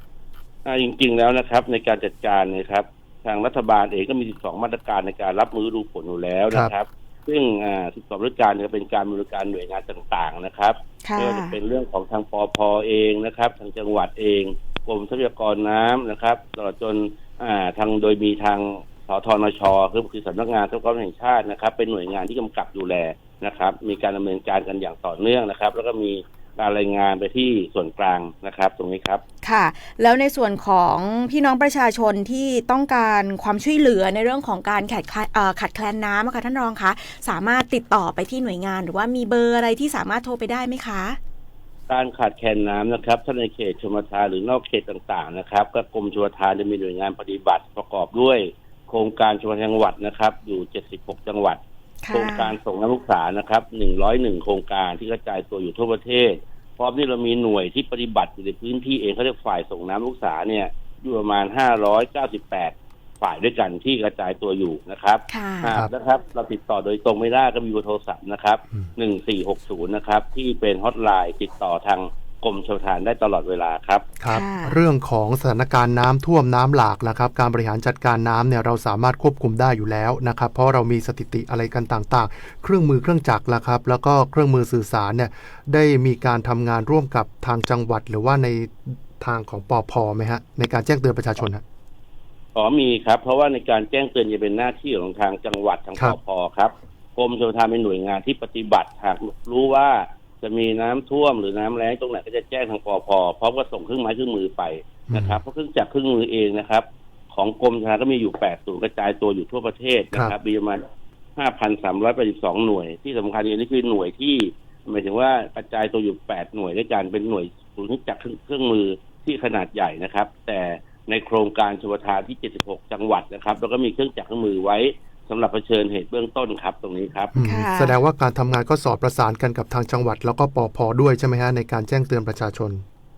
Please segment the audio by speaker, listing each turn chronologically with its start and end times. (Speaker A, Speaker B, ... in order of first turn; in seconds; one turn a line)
Speaker A: 0.6-29.2
Speaker B: 11.0-11.6
Speaker B: 29.4-41.2
Speaker A: 41.9-51.6
Speaker B: 52.0-52.6
Speaker A: 52.1-74.1
Speaker B: 65.3-65.7
Speaker C: 74.2-91.6
Speaker B: 74.3-74.8
Speaker A: 92.5-110.8
Speaker C: 105.1-105.4
Speaker A: 111.3-127.3
Speaker C: 127.3-132.8
Speaker B: 127.4-128.0